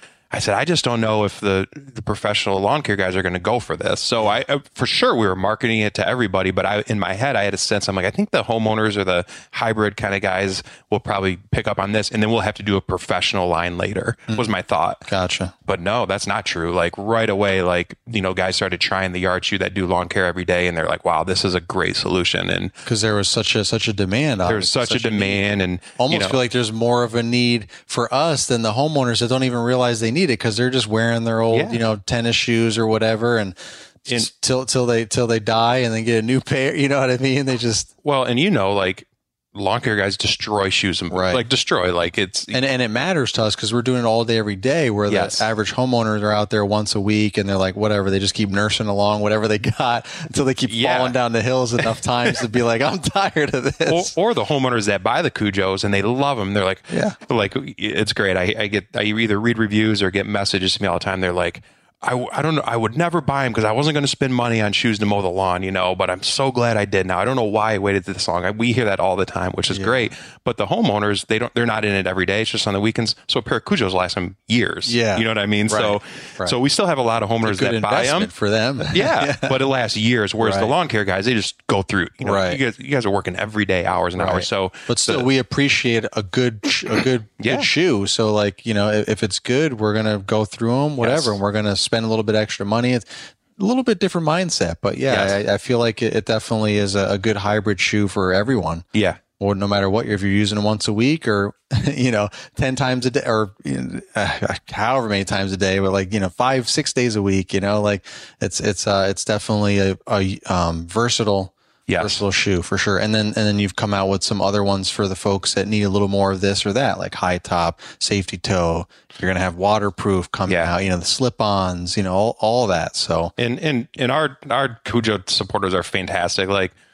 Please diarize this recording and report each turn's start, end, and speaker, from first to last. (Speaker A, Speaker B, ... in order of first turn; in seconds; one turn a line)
Speaker A: 0.3-15.0
Speaker B: 15.1-15.5
Speaker A: 15.7-22.7
Speaker B: 22.9-25.4
Speaker A: 24.5-26.4
Speaker B: 26.0-37.9
Speaker A: 31.5-31.8
Speaker A: 38.0-42.6
Speaker B: 41.1-41.4
Speaker B: 42.5-54.1
Speaker A: 45.1-45.5
Speaker A: 50.7-51.2
Speaker A: 53.9-78.3
Speaker B: 56.9-57.2
Speaker B: 69.7-70.0
Speaker B: 74.9-76.6
Speaker B: 77.4-79.6
Speaker A: 78.9-85.3
Speaker B: 80.4-80.7
Speaker B: 82.2-82.6
Speaker B: 84.2-98.8
Speaker A: 87.4-87.7
Speaker A: 91.0-91.3
Speaker A: 95.1-95.4
Speaker A: 98.9-99.2
Speaker B: 99.4-123.3
Speaker A: 111.9-112.2
Speaker A: 120.5-120.7
Speaker A: 123.4-126.7